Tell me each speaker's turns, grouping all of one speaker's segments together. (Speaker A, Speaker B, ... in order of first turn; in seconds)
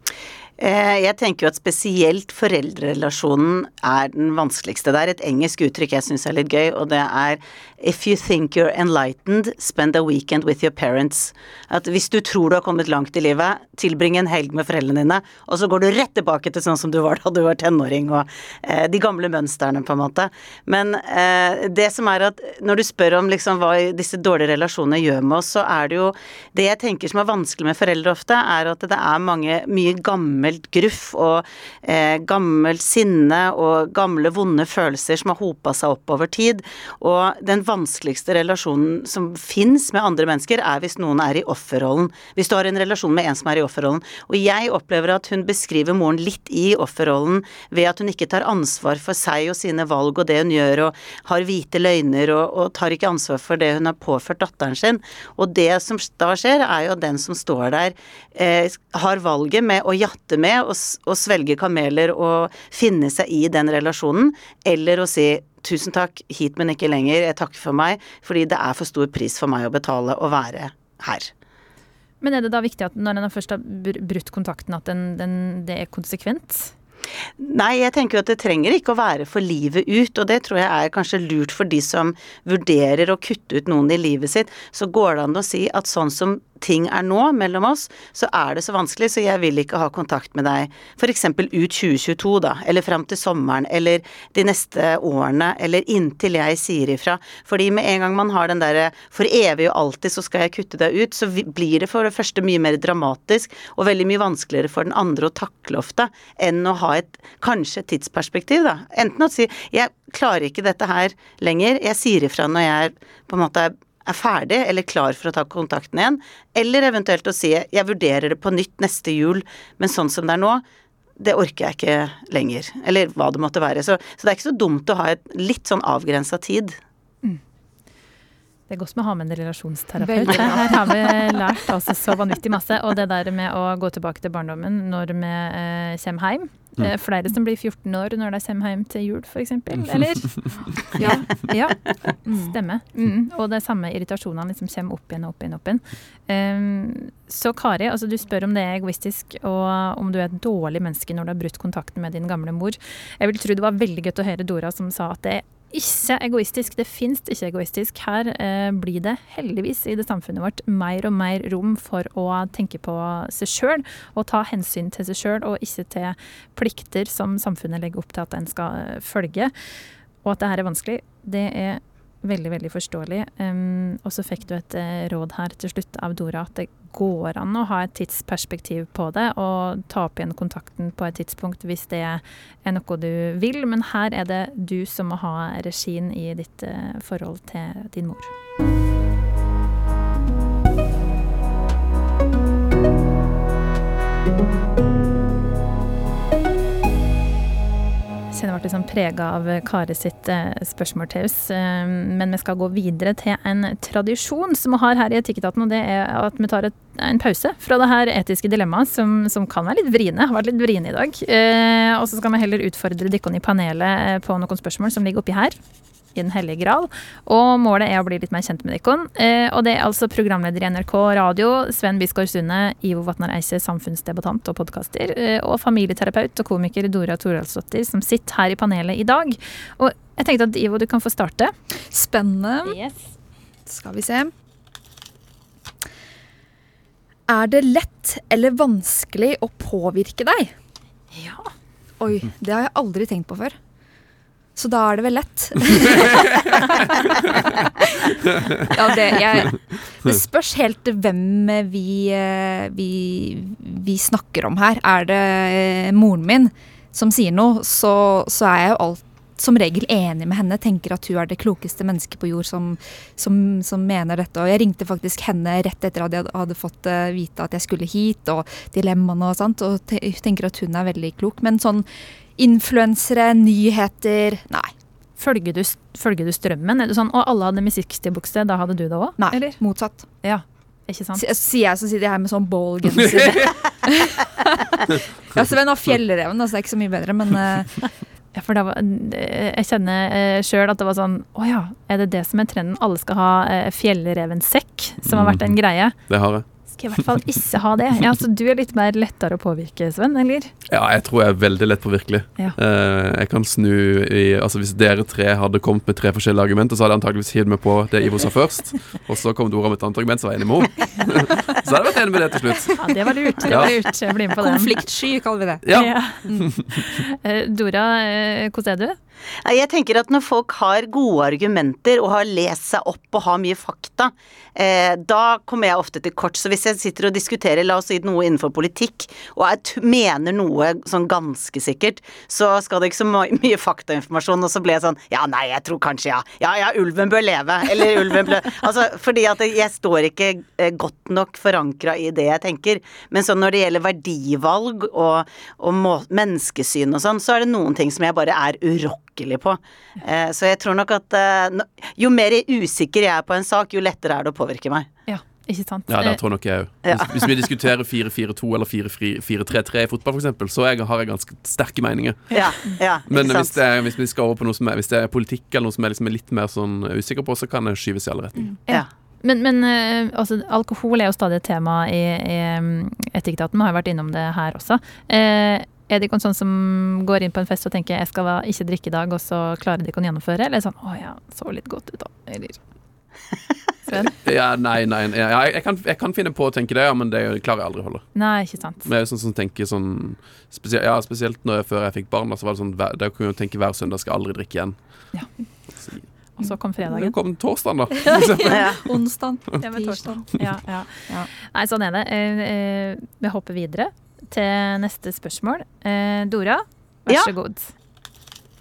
Speaker A: 0.6-71.3, 77.4-120.6, 121.2-126.8, 319.4-354.9, 356.8-357.4, 362.3-363.6, 398.4-398.8
Speaker B: 72.2-76.7, 128.7-141.8, 142.4-169.5, 170.2-188.3, 198.3-215.6, 216.1-231.5, 232.6-233.0, 241.1-241.5, 275.2-279.6, 280.2-281.2, 288.3-295.9, 296.7-300.5, 312.8-314.8, 315.7-318.9, 355.1-356.2, 368.7-382.6, 383.9-384.2, 388.1-388.9, 396.4-397.1, 399.6-407.7
Speaker C: 130.0-131.4, 140.9-141.3, 142.2-142.5, 231.9-232.8, 233.7-234.3, 237.3-240.5, 242.0-243.5, 244.6-246.9, 247.8-271.8, 272.4-274.7, 279.2-280.0, 281.1-287.8, 313.5-313.8, 314.3-315.6, 398.2-400.2
Speaker D: 245.7-247.5, 248.3-248.7, 283.1-283.5, 295.1-295.6, 296.1-296.4, 300.7-312.8, 313.4-313.7, 315.6-316.9, 355.9-362.4, 363.1-368.5, 384.1-388.1, 388.8-394.8, 395.8-396.1, 396.9-398.9